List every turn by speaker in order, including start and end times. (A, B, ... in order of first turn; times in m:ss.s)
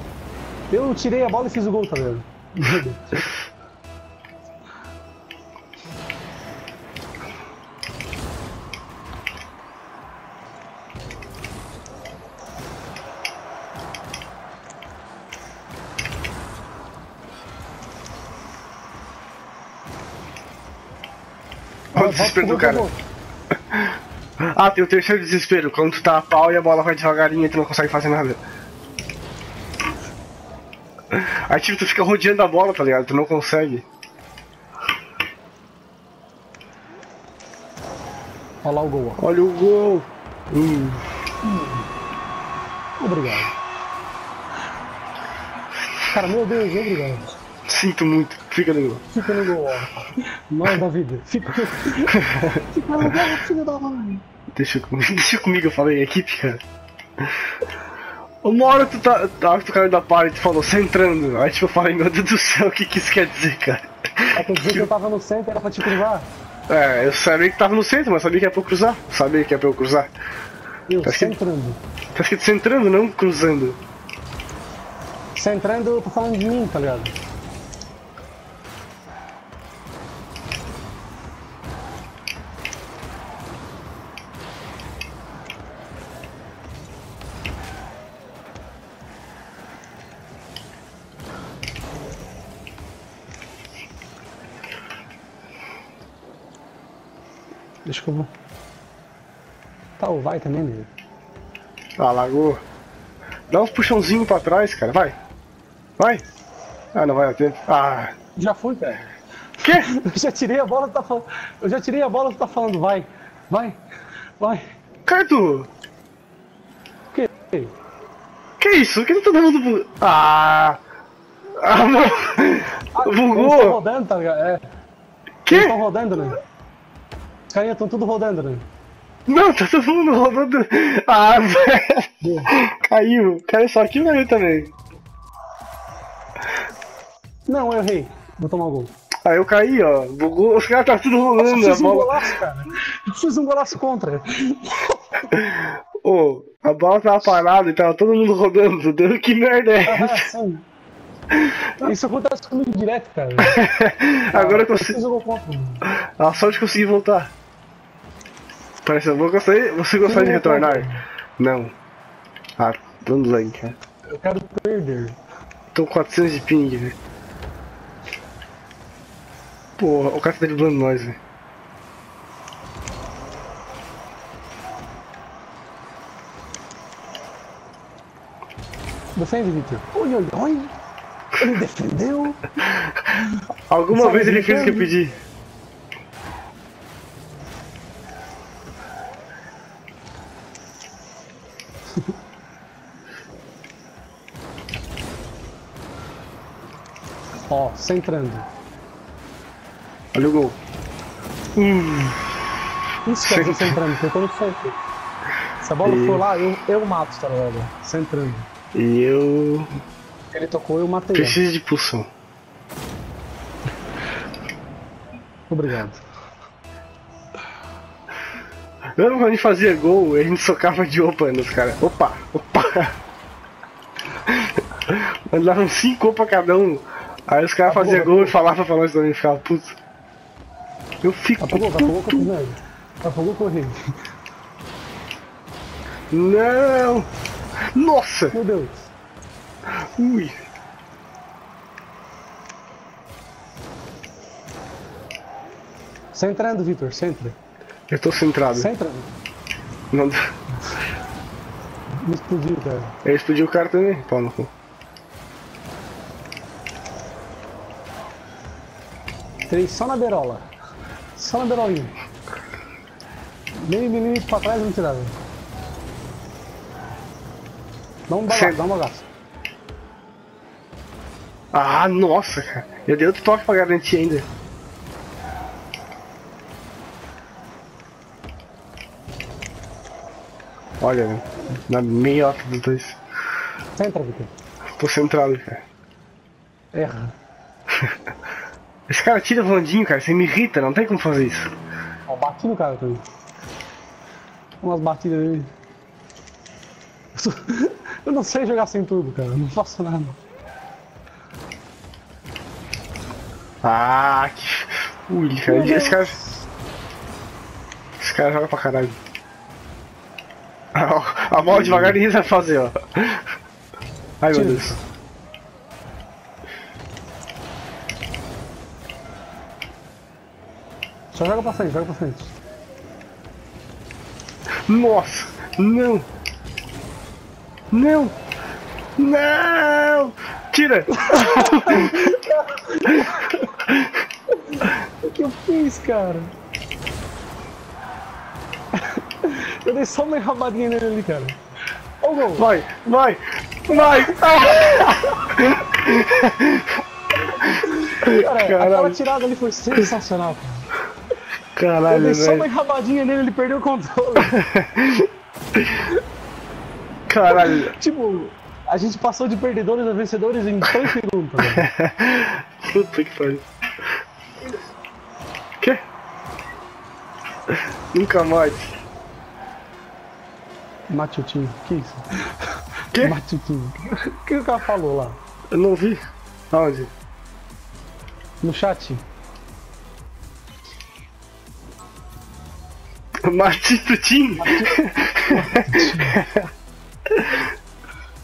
0:00.7-0:03.2 A
0:21.9-0:22.8 B
0:21.9-0:23.0 A
0:23.7-0:28.4 B
0:31.1-0:33.8 B
0:38.6-0:39.2 A
0:39.2-0:41.1 B
0:41.4-0:41.8 A
0:43.0-0:43.5 A
0:46.1-0:47.3 A
0:47.6-0:49.0 B
0:49.1-0:54.2 A
0:52.1-0:52.6 B
0:54.5-0:56.6 B
0:58.4-1:04.9 B
1:04.3-1:06.3 A
1:06.7-1:10.1 B
1:10.9-1:11.8 A
1:11.0-1:11.3 B
1:12.1-1:13.8 B
1:15.4-1:17.2 A
1:37.8-1:38.3 A
1:40.0-1:40.9 A
1:42.0-1:42.6 B
1:43.5-1:45.2 B
1:46.0-1:46.2 B
1:46.9-1:48.1 B
1:48.4-1:53.8 A
1:49.6-1:49.9 B
1:54.4-1:54.7 A
1:55.0-1:55.7 B
1:57.1-1:57.7 A
1:58.6-2:00.8 B
2:01.6-2:03.8 B
2:02.9-2:04.6 A
2:05.4-2:05.8 B
2:05.5-2:06.4 A
2:07.5-2:08.7 A
2:09.3-2:14.7 B
2:12.2-2:12.5 A
2:17.5-2:18.9 A
2:19.2-2:22.2 B
2:21.4-2:25.3 A
2:25.3-2:30.3 B
2:29.8-2:30.6 A
2:31.3-2:31.7 B
2:31.8-2:33.6 A
2:33.4-2:35.0 B
2:34.3-2:35.8 A
2:35.8-2:37.3 B
2:38.8-2:41.7 B
2:40.0-2:41.0 A
2:42.6-2:43.8 B
2:44.1-2:45.2 A
2:45.7-2:47.0 B
2:49.8-2:51.2 B
2:59.2-3:00.7 A
3:01.3-3:02.5 A
3:03.7-3:05.2 B
3:03.9-3:04.9 A
3:17.5-3:18.5 A
3:20.1-3:20.6 B
3:21.5-3:22.4 B
3:23.0-3:24.8 A
3:23.2-3:23.8 B
3:25.6-3:28.5 A
3:25.8-3:26.2 B
3:28.7-3:29.7 B
3:30.3-3:31.4 A
3:31.1-3:32.1 B
3:35.5-3:36.0 A
3:39.0-3:43.0 B
3:44.2-3:49.8 B
3:47.7-3:48.3 A
3:51.0-3:52.3 B
3:51.4-3:53.8 A
3:56.1-3:57.1 B
3:57.7-3:58.4 B
3:58.3-3:58.9 A
3:59.8-4:00.3 B
4:06.1-4:07.4 A
4:07.9-4:08.7 B
4:08.5-4:09.1 A
4:09.9-4:10.2 B
4:12.0-4:12.9 A
4:13.0-4:14.5 B
4:19.5-4:20.5 A
4:21.2-4:21.9 A
4:23.6-4:25.2 A
4:28.1-4:29.0 A
4:28.3-4:28.6 B
4:31.5-4:34.3 B
4:40.8-4:43.0 B
4:43.8-4:44.3 A
4:44.8-4:45.6 B
4:46.7-4:47.1 A
4:48.9-4:51.5 B
4:52.1-4:53.0 A
4:54.6-4:55.5 A
4:57.1-5:00.2 A
5:03.6-5:06.2 B
5:05.5-5:06.1 A
5:08.0-5:09.0 B
5:10.7-5:13.3 B
5:14.2-5:14.8 B
5:14.3-5:14.8 A
5:21.1-5:22.3 A
5:24.7-5:26.1 B
5:27.7-5:28.2 B
5:29.0-5:32.2 B
5:30.9-5:33.6 A
5:32.9-5:33.1 B
5:33.6-5:34.0 B
5:34.3-5:36.3 A
5:38.7-5:41.4 A
5:42.0-5:42.4 A
5:42.3-5:46.8 B
5:43.7-5:45.3 A
5:47.4-5:50.7 A
5:48.0-5:49.0 B
5:51.6-5:52.5 B
5:51.9-5:54.5 A
5:54.3-5:55.8 B
5:57.1-5:57.7 B
5:57.3-6:01.7 A
6:01.5-6:03.4 B
6:07.5-6:08.7 B
6:10.9-6:15.2 A
6:12.9-6:13.2 B
6:15.5-6:16.9 B
6:18.4-6:19.0 A
6:23.2-6:26.5 B
6:24.4-6:26.2 A
6:27.1-6:27.4 B